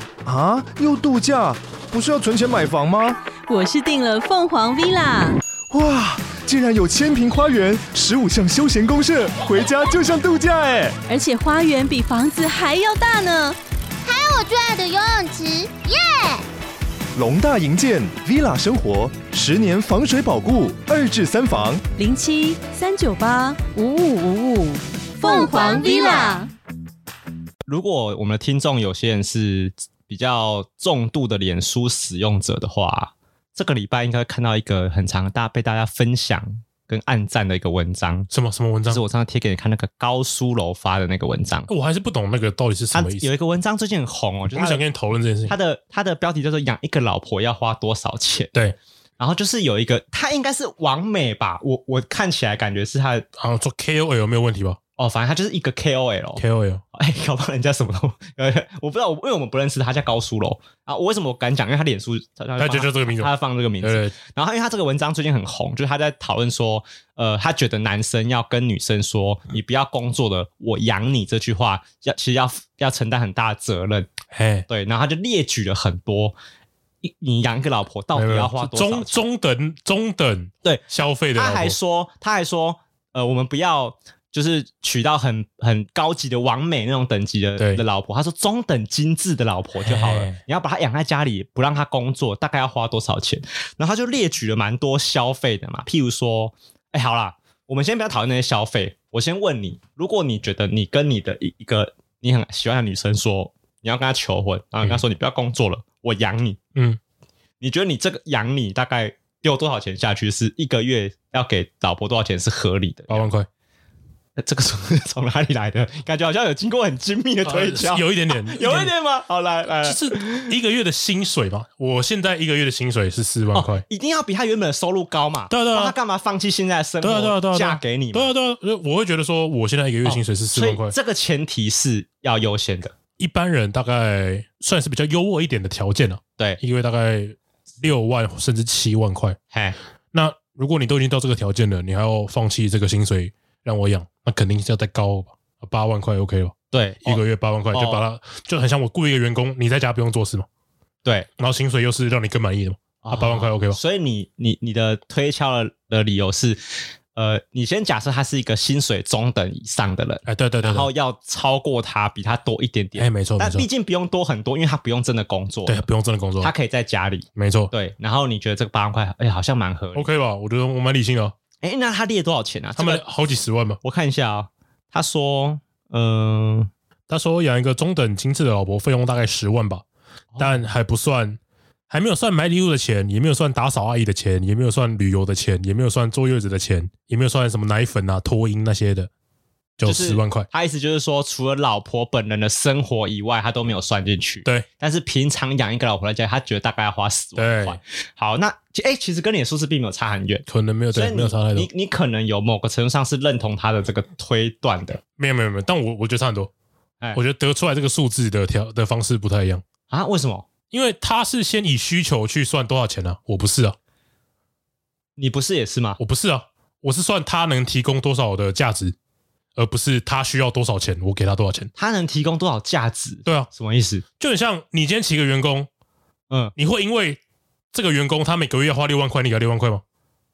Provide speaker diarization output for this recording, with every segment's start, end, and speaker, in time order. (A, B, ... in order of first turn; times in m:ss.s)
0:00.2-0:03.2 A
0:03.5-0:05.4 B
0:05.7-0:11.0 A
0:11.1-0:13.6 B
0:14.0-0:16.4 C
0:17.2-0:21.8 A
0:22.0-0:26.5 B
0:25.2-0:26.5 C
0:27.7-0:38.3 D
0:38.3-0:39.0 E
0:38.9-0:41.7 D
0:41.7-0:43.3 E
0:42.9-0:44.8 D
0:44.5-0:45.5 E
0:45.5-0:48.5 D
0:49.2-0:53.2 D
0:53.4-0:54.8 E
0:55.0-0:56.4 D
0:56.4-0:56.8 E
0:56.9-1:14.1 D
1:02.6-1:03.3 E
1:03.8-1:04.1 E
1:14.3-1:14.6 E
1:14.7-1:16.4 D
1:17.0-1:19.2 D
1:18.1-1:21.8 E
1:20.6-1:46.6 D
1:29.9-1:30.4 E
1:47.6-1:53.3 D
1:53.1-1:53.5 E
1:54.4-2:00.5 D
1:57.5-1:58.9 E
1:59.8-2:03.8 E
2:03.5-2:08.3 D
2:05.5-2:06.0 E
2:07.0-2:10.9 E
2:10.0-2:12.9 D
2:13.2-2:19.4 E
2:20.1-2:30.5 E
2:26.7-2:28.0 D
2:31.4-2:33.8 E
2:33.0-2:36.6 D
2:37.2-2:45.8 D
2:40.3-2:40.9 E
2:43.0-2:43.7 E
2:45.7-2:46.5 E
2:46.4-2:50.1 D
2:47.4-2:47.7 E
2:50.0-2:51.3 E
2:51.6-2:53.0 D
2:52.8-2:53.8 E
2:53.8-2:56.7 D
2:57.1-2:59.8 E
3:00.3-3:00.6 D
3:00.4-3:01.4 E
3:01.9-3:09.1 E
3:09.8-3:10.5 E
3:09.8-3:25.0 D
3:17.4-3:17.8 E
3:20.5-3:21.7 E
3:25.2-3:26.5 E
3:27.2-3:29.6 E
3:29.9-3:30.5 D
3:30.7-3:33.8 E
3:35.2-3:36.0 D
3:36.0-3:39.0 E
3:39.6-3:41.7 E
3:41.8-3:44.0 D
3:44.2-3:45.7 E
3:46.6-3:47.2 E
3:47.7-3:49.8 E